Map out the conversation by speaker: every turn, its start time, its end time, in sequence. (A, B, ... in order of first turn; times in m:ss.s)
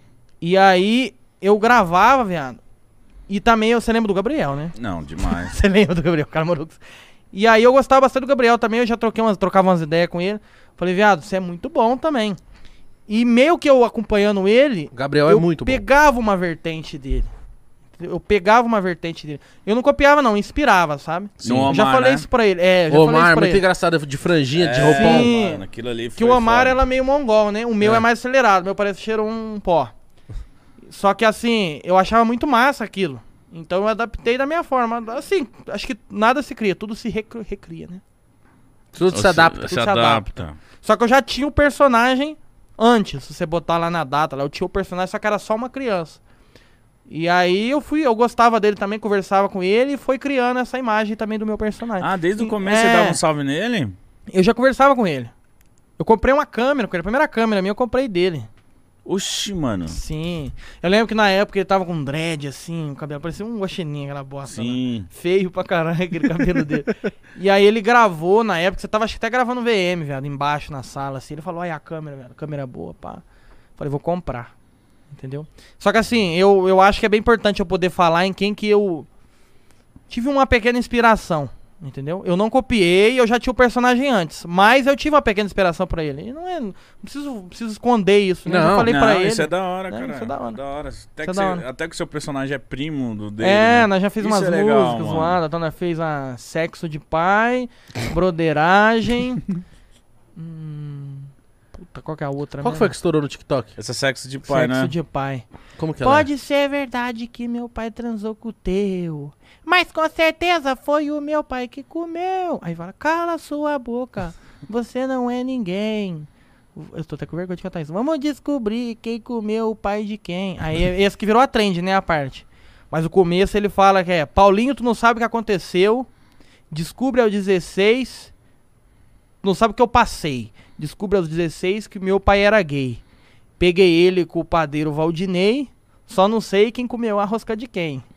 0:00.4-0:02.6 A
0:03.3-0:04.8 A
0:04.8-0:05.5 B
0:05.3-0:06.8 A
0:07.3-0:12.4 A
0:13.1-0:17.3 A
0:14.9-0:15.8 C
0:18.0-0:23.6 A
0:21.4-0:21.7 C
0:21.4-0:22.2 B
0:22.9-0:25.3 C
0:24.5-0:26.8 B
0:24.8-0:25.6 A
0:26.2-0:29.9 A
0:30.9-0:38.0 A
0:38.9-0:39.6 C
0:39.1-0:40.6 B
0:39.6-0:46.2 A
0:47.1-0:53.2 A
0:52.0-0:54.0 B
0:54.3-0:55.3 A
0:56.0-0:58.5 A
0:59.1-1:00.0 B
0:59.9-1:13.2 A
1:04.5-1:05.1 B
1:13.8-1:14.5 A
1:15.1-1:19.1 A
1:20.1-1:30.6 A
1:28.5-1:28.9 C
1:28.9-1:35.4 B
1:31.2-1:31.6 A
1:33.4-1:39.5 A
1:40.4-1:42.9 A
1:42.6-1:43.7 C
1:43.8-1:44.9 B
1:44.5-1:45.5 A
1:45.8-1:46.3 C
1:46.0-2:06.1 A
2:06.7-2:08.3 A
2:09.4-2:13.0 A
2:13.6-2:18.0 A